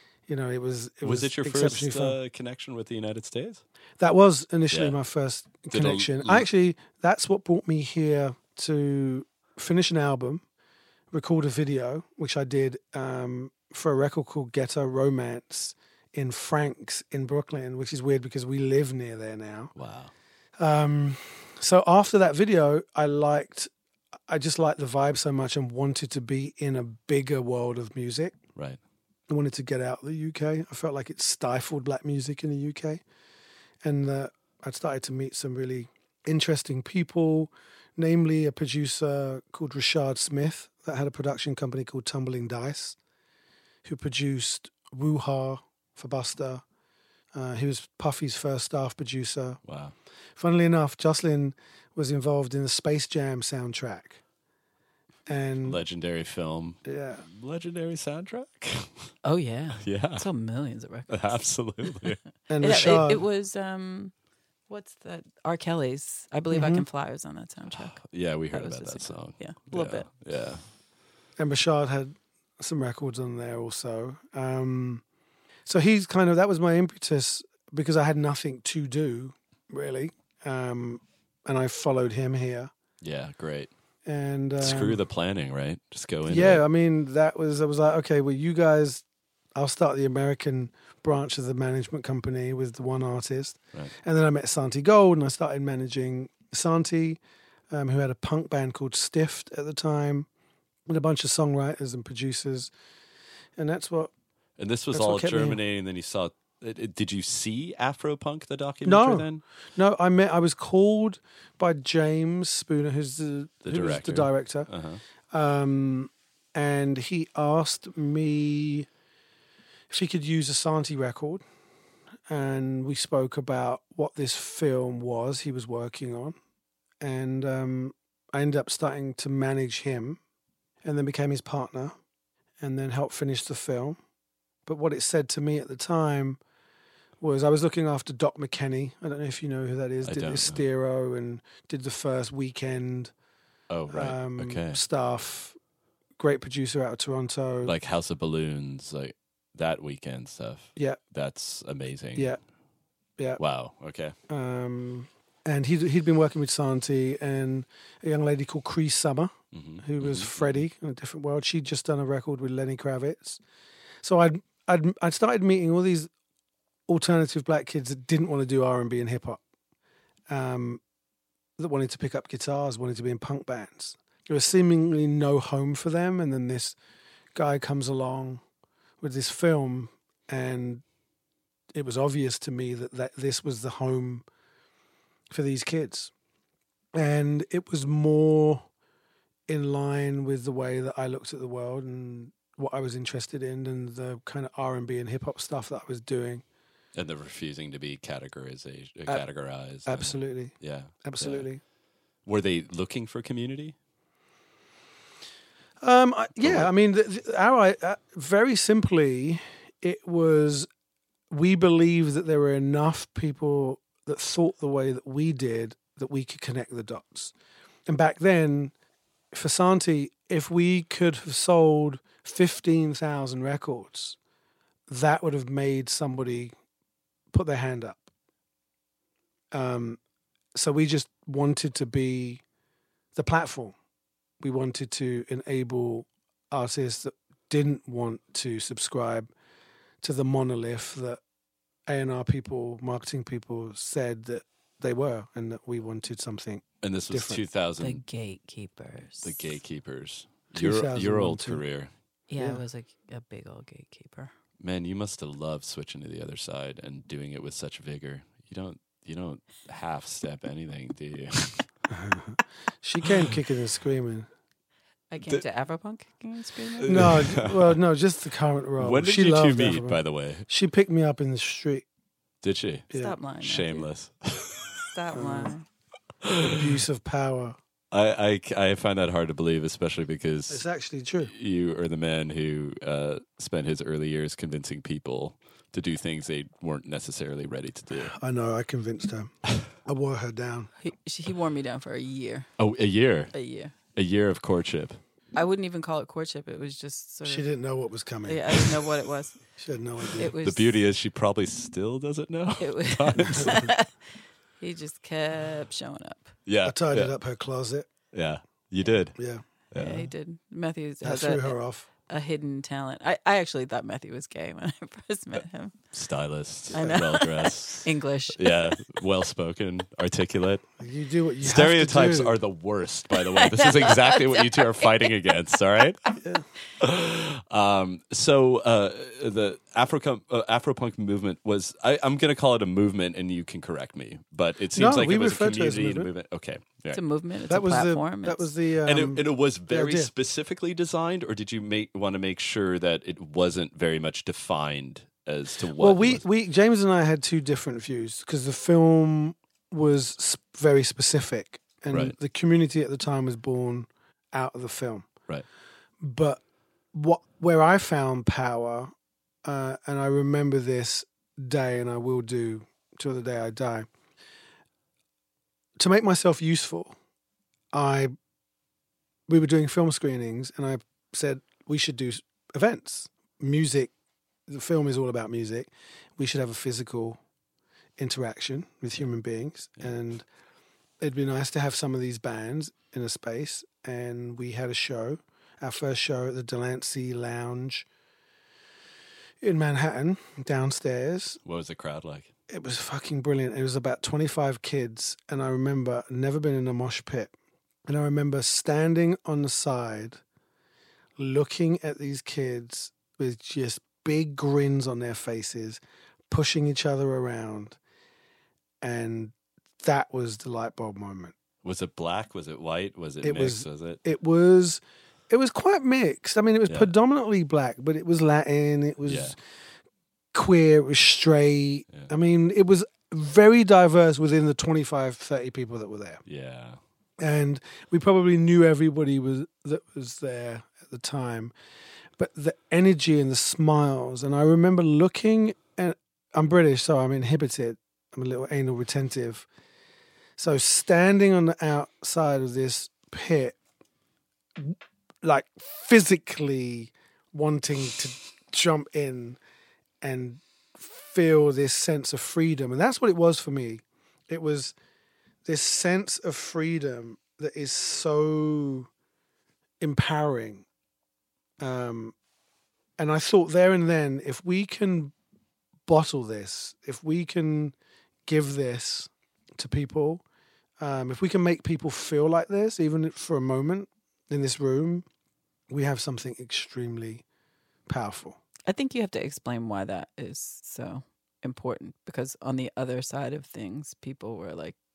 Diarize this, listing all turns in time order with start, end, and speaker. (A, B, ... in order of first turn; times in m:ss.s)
0:00.3-0:02.2 A
0:01.0-0:03.6 B
0:04.0-0:10.4 A
0:04.7-0:05.0 B
0:05.7-0:06.5 B
0:11.1-0:19.7 A
0:19.8-0:20.1 B
0:20.6-0:23.7 A
0:24.3-0:28.4 A
0:29.3-0:33.0 A
0:33.8-0:43.0 A
0:43.8-0:46.6 A
0:47.3-0:49.6 A
0:49.6-0:50.0 B
0:50.4-0:54.2 A
0:55.3-0:55.8 A
0:55.6-0:59.1 B
0:56.8-0:57.2 A
0:59.2-1:01.4 C
0:59.8-1:00.3 B
1:01.1-1:03.1 B
1:02.5-1:03.2 A
1:02.6-1:04.1 C
1:04.7-1:10.1 C
1:06.5-1:06.8 A
1:07.7-1:10.7 B
1:11.4-1:15.0 A
1:15.7-1:22.7 A
1:23.0-1:23.7 B
1:24.0-1:25.0 A
1:24.6-1:26.6 B
1:26.3-1:40.3 A
1:40.9-1:42.7 A
1:43.6-1:44.1 A
1:44.6-1:49.4 B
1:44.9-1:45.6 A
1:48.8-1:54.7 A
1:53.7-1:55.0 B
1:55.3-1:58.9 A
1:59.9-2:01.4 A
2:02.3-2:06.4 A
2:07.0-2:10.2 A
2:10.8-2:12.0 A
2:12.6-2:14.0 A
2:14.7-2:16.4 A
2:17.2-2:23.1 A
2:20.0-2:20.6 B
2:23.7-2:24.8 B
2:23.9-2:25.6 A
2:26.2-2:27.7 A
2:27.6-2:32.4 B
2:32.2-2:32.4 A
2:33.4-2:34.2 B
2:34.3-2:43.4 A
2:39.5-2:40.6 B
2:44.0-2:46.1 A
2:46.9-2:49.4 A
2:50.3-2:50.8 A
2:51.6-2:56.8 A
2:57.4-2:58.4 A
2:59.0-3:00.8 A
3:01.7-3:04.3 A
3:05.3-3:06.1 A
3:06.9-3:08.7 A
3:09.5-3:16.4 A
3:17.0-3:21.5 B
3:19.8-3:21.6 A
3:22.3-3:23.8 B
3:25.8-3:30.7 A
3:26.4-3:26.7 B
3:31.3-3:37.3 A
3:37.9-3:38.7 A
3:39.3-3:44.2 A
3:44.9-3:46.5 A
3:47.3-3:48.1 A
3:49.5-3:50.0 A
3:50.6-3:52.4 A
3:53.2-3:53.8 A
3:54.4-3:59.3 A
4:00.0-4:01.2 A
4:01.9-4:07.4 A
4:06.8-4:08.0 B
4:07.8-4:09.5 C
4:09.2-4:11.9 B
4:10.5-4:11.6 A
4:12.3-4:14.3 C
4:12.4-4:12.6 A
4:14.6-4:21.8 B
4:21.9-4:24.3 A
4:25.1-4:27.2 C
4:26.8-4:27.8 B
4:26.9-4:31.9 A
4:28.8-4:30.5 B
4:32.4-4:34.9 B
4:32.9-4:33.2 A
4:32.9-4:33.9 C
4:34.9-4:35.7 C
4:35.1-4:35.5 A
4:36.2-4:36.5 B
4:36.4-4:37.6 A
4:37.9-4:40.6 B
4:40.5-4:41.3 A
4:41.2-4:48.1 B
4:47.9-4:50.7 A
4:50.8-4:52.5 C
4:52.6-4:53.3 B
4:53.3-4:53.7 C
4:53.9-4:55.0 B
4:55.4-4:57.5 C
4:57.2-4:58.7 A
4:58.2-4:59.4 C
4:59.6-5:00.3 A
5:00.2-5:00.8 C
5:00.4-5:03.7 B
5:02.6-5:06.3 C
5:06.5-5:07.1 B
5:06.6-5:07.9 A
5:08.1-5:10.1 B
5:09.2-5:09.4 A
5:09.8-5:11.5 C
5:11.0-5:11.9 A
5:12.1-5:15.8 C
5:15.9-5:20.7 B
5:16.7-5:18.9 C
5:20.8-5:22.4 A
5:21.4-5:26.1 B
5:23.2-5:25.1 C
5:26.2-5:26.5 A
5:26.8-5:37.0 B
5:34.7-5:36.1 A
5:36.9-5:38.5 C
5:37.5-5:40.1 A
5:38.8-5:46.2 B
5:45.8-5:55.1 A
5:51.9-5:52.2 B
5:56.0-5:56.4 A
5:56.9-5:58.9 A
5:59.4-6:03.9 A
6:05.8-6:07.0 A
6:07.7-6:08.1 A
6:09.3-6:13.9 A
6:14.5-6:17.2 A
6:18.0-6:20.3 A
6:21.0-6:27.9 A
6:29.4-6:31.4 A
6:31.4-6:32.3 B
6:32.5-6:37.3 A
6:37.9-6:40.2 A
6:41.2-6:47.8 A
6:48.8-6:51.4 A
6:51.6-6:54.0 B
6:53.2-6:59.4 A
6:56.7-6:56.9 B
6:59.0-6:59.4 B
7:00.3-7:06.2 A
7:06.3-7:06.8 B
7:07.2-7:11.5 A
7:12.2-7:19.5 A
7:20.4-7:23.6 A
7:24.6-7:29.4 A
7:30.0-7:34.8 A
7:35.4-7:38.9 A
7:39.8-7:40.6 A
7:41.6-7:42.2 A
7:43.0-7:45.1 A
7:45.9-7:47.7 A
7:48.3-7:50.2 A
7:50.8-7:55.1 A
7:55.7-7:57.2 A
7:57.9-7:58.4 A
7:58.7-8:04.8 C